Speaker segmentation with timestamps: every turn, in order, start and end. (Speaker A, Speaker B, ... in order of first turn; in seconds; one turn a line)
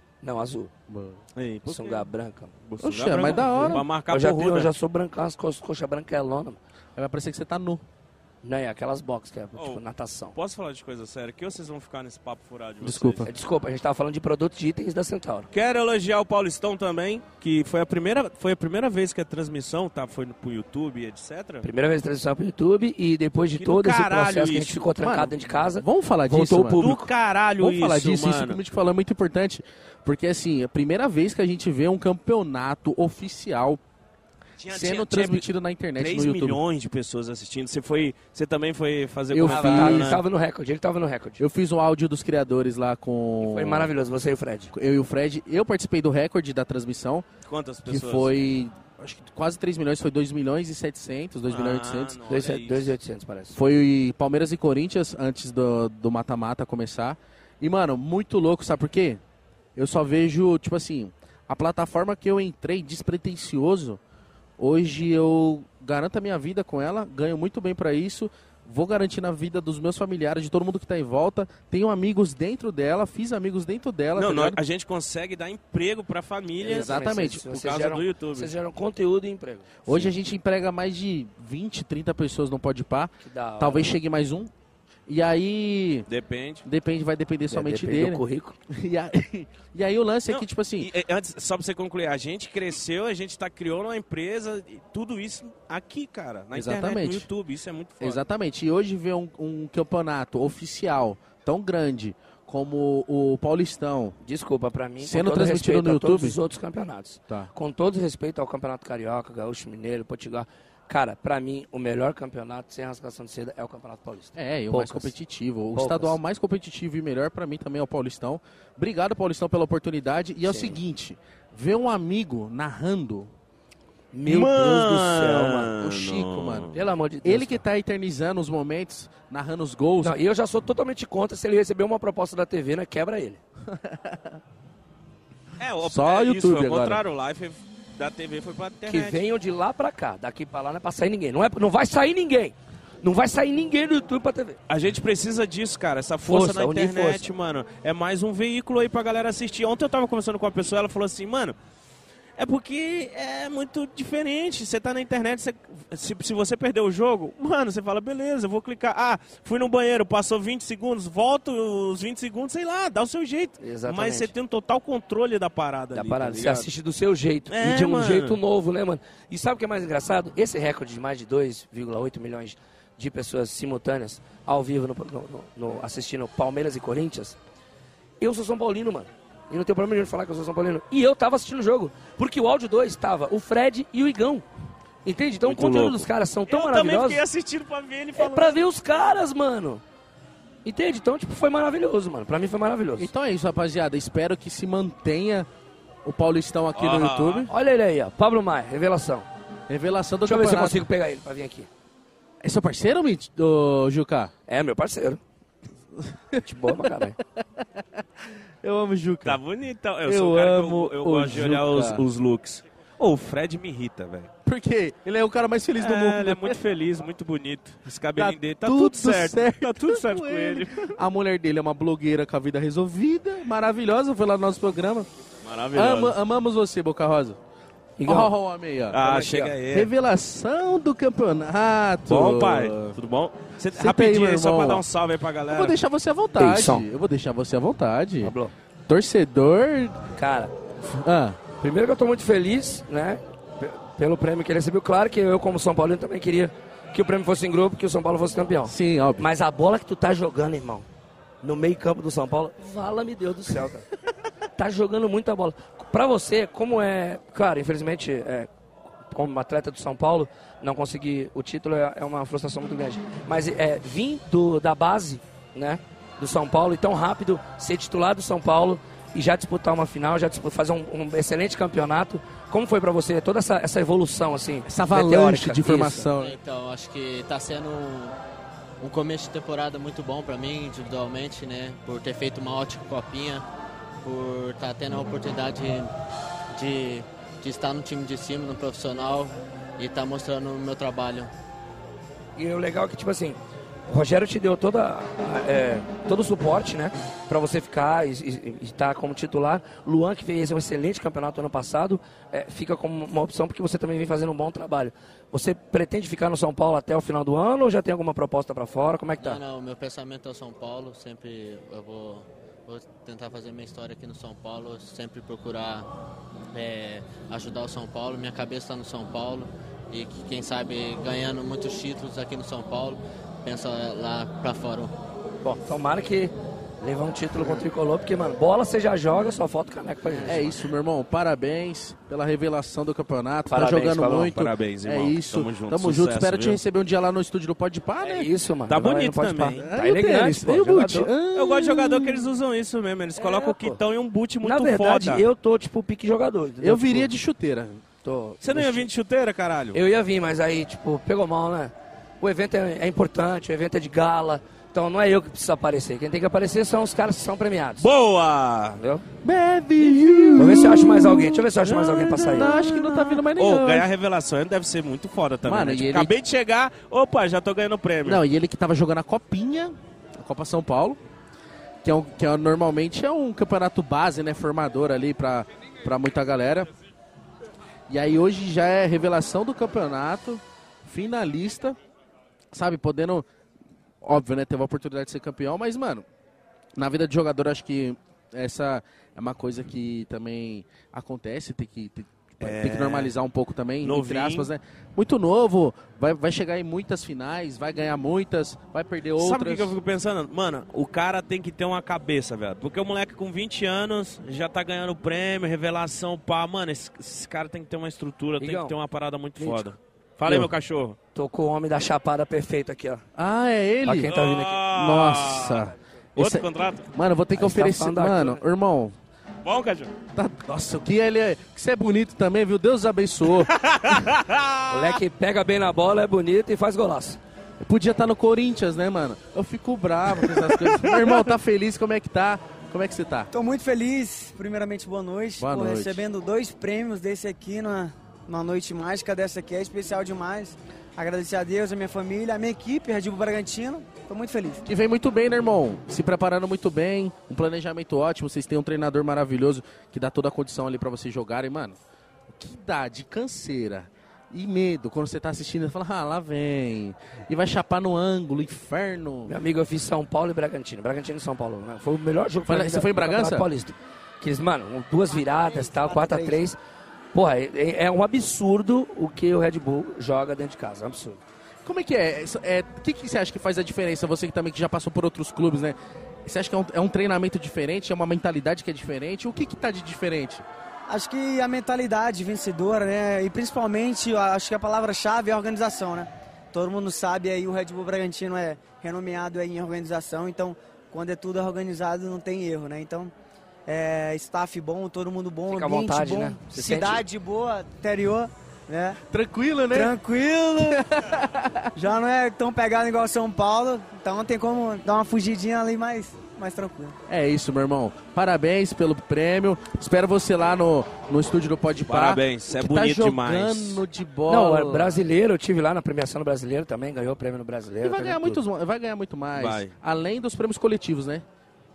Speaker A: 0.2-0.7
Speaker B: 0.9-1.2
Speaker C: 1.4-2.1
Speaker A: 1.7-2.5
Speaker C: 2.7-4.7
Speaker B: 2.8-3.9
Speaker A: 3.2-6.6
Speaker B: 7.0-7.8
Speaker A: 8.4-10.4
Speaker C: 9.6-9.8
Speaker C: 10.3-13.3
Speaker B: 12.8-13.3
Speaker A: 13.3-15.5
Speaker C: 15.5-21.6
Speaker A: 21.6-27.0
Speaker C: 23.6-24.9
Speaker B: 25.0-33.8
Speaker C: 26.8-28.6
Speaker C: 34.6-40.2
Speaker B: 34.7-36.6
Speaker B: 39.3-40.2
Speaker A: 39.4-41.4
Speaker B: 41.4-43.9
Speaker A: 43.4-44.7
Speaker B: 44.7-47.3
Speaker C: 47.5-48.5
Speaker B: 47.9-52.2
Speaker C: 51.5-52.9
Speaker A: 52.3-53.6
Speaker B: 53.5-59.2
Speaker B: 59.8-64.0
Speaker B: 64.6-74.6
Speaker C: 74.2-78.5
Speaker A: 76.6-80.0
Speaker B: 76.6-77.4
Speaker B: 79.9-84.5
Speaker A: 83.2-84.0
Speaker B: 85.1-86.1
Speaker C: 86.1-86.7
Speaker B: 86.6-90.9
Speaker A: 87.5-88.6
Speaker C: 90.3-98.2
Speaker B: 96.5-97.3
Speaker B: 98.0-104.2
Speaker A: 104.2-115.1
Speaker B: 105.0-106.4
Speaker B: 114.3-123.3
Speaker A: 115.8-116.2
Speaker A: 120.4-120.8
Speaker A: 124.1-125.7
Speaker C: 124.3-126.8
Speaker B: 125.8-126.7
Speaker A: 126.7-127.6
Speaker B: 127.2-130.2
Speaker A: 130.0-133.4
Speaker B: 133.7-134.4
Speaker C: 135.6-139.2
Speaker B: 135.8-137.0
Speaker A: 138.9-144.6
Speaker C: 144.7-151.6
Speaker A: 146.3-147.3
Speaker C: 152.4-166.7
Speaker A: 163.6-164.3
Speaker A: 165.9-177.4
Speaker C: 167.5-168.4
Speaker A: 178.2-184.4
Speaker A: 185.1-187.2
Speaker C: 185.4-188.6
Speaker A: 188.2-189.8
Speaker A: 190.7-193.1
Speaker B: 193.0-195.5
Speaker B: 196.1-197.5
Speaker C: 196.7-197.5
Speaker A: 197.5-199.3
Speaker B: 199.7-200.8
Speaker A: 200.2-201.7
Speaker B: 202.4-204.3
Speaker A: 204.5-205.2
Speaker B: 206.0-208.0
Speaker A: 206.4-207.2
Speaker B: 208.6-209.4
Speaker C: 209.2-214.3
Speaker B: 210.1-212.1
Speaker B: 214.4-216.6
Speaker C: 215.8-221.0
Speaker B: 218.2-225.1
Speaker C: 225.4-226.2
Speaker B: 225.7-227.4
Speaker A: 228.0-228.3
Speaker B: 228.0-233.0
Speaker C: 228.9-229.9
Speaker A: 229.1-229.4
Speaker C: 232.1-235.8
Speaker B: 233.7-234.8
Speaker B: 235.5-238.3
Speaker A: 236.4-236.8
Speaker A: 238.2-238.5
Speaker B: 238.9-240.0
Speaker A: 240.2-240.5
Speaker B: 240.8-241.4
Speaker A: 241.6-250.9
Speaker B: 248.7-249.3
Speaker A: 251.4-253.9
Speaker A: 254.6-258.5
Speaker A: 259.1-276.1
Speaker B: 274.7-276.4
Speaker D: 276.2-278.2
Speaker D: 278.8-283.4
Speaker D: 284.0-285.9
Speaker D: 286.5-291.3
Speaker A: 292.4-309.4
Speaker D: 309.2-315.9
Speaker D: 316.5-324.9
Speaker A: 325.4-330.5
Speaker B: 330.3-338.3
Speaker A: 333.5-334.4
Speaker C: 334.3-336.6
Speaker A: 338.0-341.1
Speaker C: 338.7-339.6
Speaker B: 339.6-342.3
Speaker C: 341.3-345.3
Speaker A: 343.2-343.8
Speaker A: 344.4-347.1
Speaker B: 346.6-347.8
Speaker A: 348.0-348.9
Speaker C: 348.4-349.8
Speaker A: 349.7-357.9
Speaker C: 357.8-358.8
Speaker A: 358.8-359.0
Speaker B: 359.2-363.9
Speaker A: 360.4-362.6
Speaker C: 362.4-368.2
Speaker B: 365.4-366.1
Speaker B: 368.0-371.0
Speaker B: 371.8-376.7
Speaker B: 377.9-381.8
Speaker B: 382.5-383.3
Speaker B: 384.0-386.1
Speaker B: 386.8-399.8
Speaker C: 392.4-393.1
Speaker C: 393.8-394.5
Speaker C: 399.2-411.0
Speaker A: 408.4-408.8
Speaker A: 409.4-409.7
Speaker A: 411.1-413.0
Speaker B: 413.2-419.0
Speaker A: 413.9-414.6
Speaker C: 414.1-416.9
Speaker A: 417.4-418.4
Speaker C: 419.4-419.9
Speaker B: 420.1-423.5
Speaker C: 423.5-425.0
Speaker A: 424.7-427.2
Speaker B: 427.6-433.3
Speaker E: 433.3-444.6
Speaker B: 435.4-436.0
Speaker B: 444.7-451.8
Speaker B: 452.3-459.3
Speaker A: 459.3-466.6
Speaker B: 462.5-463.5
Speaker E: 465.2-466.4
Speaker A: 467.1-471.2
Speaker B: 471.6-480.4
Speaker E: 480.9-493.1
Speaker E: 493.7-499.0
Speaker A: 495.5-497.0
Speaker B: 499.1-499.9
Speaker E: 499.7-500.9
Speaker B: 500.9-501.7
Speaker E: 501.8-507.0
Speaker B: 507.1-514.9
Speaker C: 511.9-513.8
Speaker A: 514.3-518.4
Speaker B: 517.8-521.2
Speaker C: 519.4-519.7